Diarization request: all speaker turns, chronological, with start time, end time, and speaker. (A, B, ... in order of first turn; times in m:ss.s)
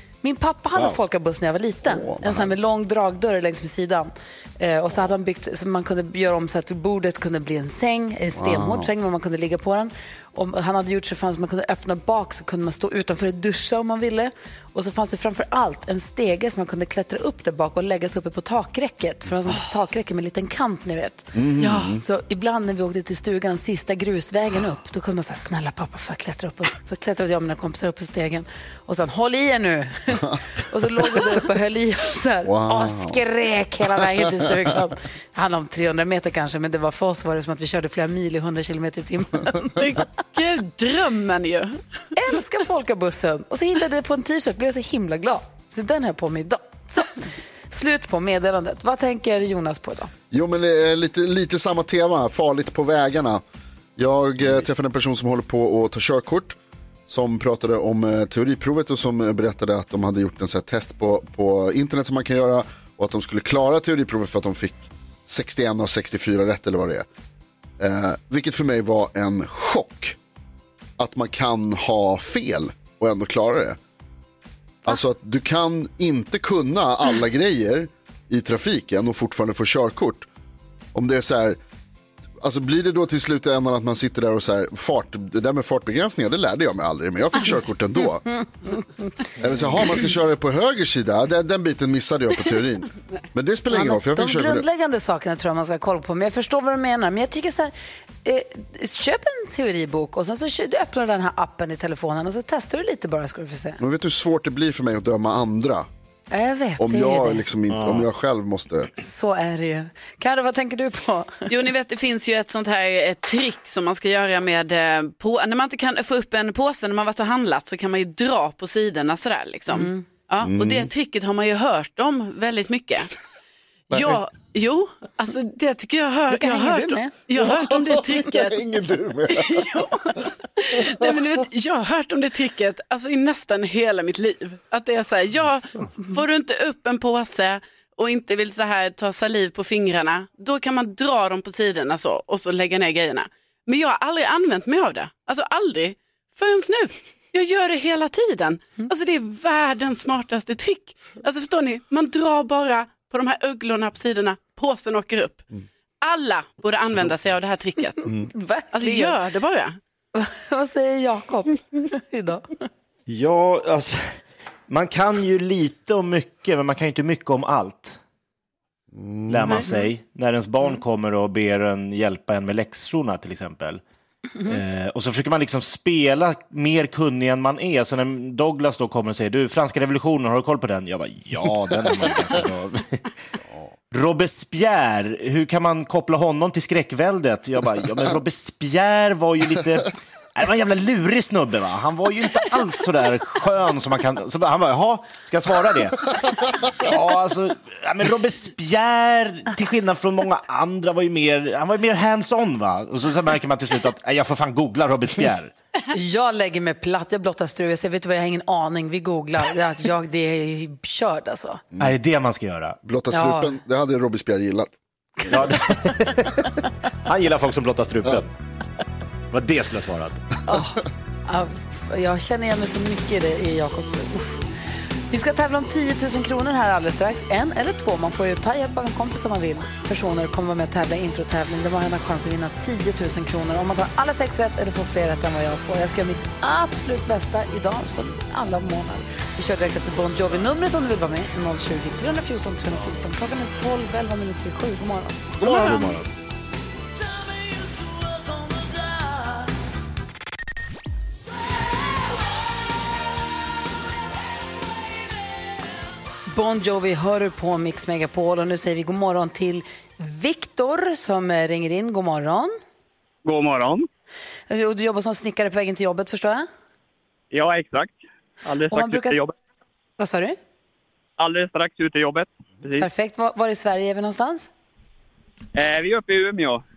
0:00.2-0:39.8 A
0:01.9-0:02.5 B
0:08.4-0:08.9 B
0:21.3-0:22.0 B
0:32.4-0:33.2 B
0:39.8-0:41.8 C
0:42.1-0:50.1 A
0:50.3-0:53.4 B
0:54.0-1:07.1 B
1:07.8-1:10.2 B
1:11.0-1:13.8 B
1:14.8-1:20.3 B
1:20.9-1:21.6 B
1:22.4-1:28.2 B
1:28.0-1:29.1 A
1:29.4-1:34.7 B
1:33.7-1:43.8 A
1:43.8-1:45.9 B
1:46.3-1:47.4 A
1:46.8-1:48.9 B
1:47.7-1:48.1 D
1:49.0-1:51.5 A
1:51.5-2:03.1 C
1:59.7-2:00.0 A
2:00.4-2:00.9 B
2:03.9-2:04.2 B
2:03.9-2:08.6 C
2:06.3-2:07.1 A
2:07.4-2:09.7 B
2:09.3-2:35.5 C
2:36.0-2:38.0 C
2:38.0-2:39.2 A
2:38.7-2:39.8 C
2:40.1-2:42.6 A
2:43.1-2:48.0 D
2:48.9-2:49.7 B
2:49.3-2:53.8 D
2:54.5-3:03.1 D
3:03.9-3:25.5 D
3:25.9-3:31.6 A
3:31.8-3:32.8 D
3:32.8-3:34.7 B
3:33.1-3:33.5 A
3:35.3-3:36.4 D
3:37.0-3:38.3 D
3:39.3-3:40.3 D
3:40.5-3:44.4 A
3:45.1-4:05.8 A
4:05.4-4:06.0 B
4:05.4-4:06.0 D
4:16.3-4:22.6 A
4:23.2-4:23.9 E
4:24.5-4:26.5 A
4:27.3-4:29.3 E
4:28.7-4:29.2 A
4:30.0-4:30.4 A
4:31.2-4:32.9 E
4:32.8-4:34.5 A
4:35.5-4:36.6 E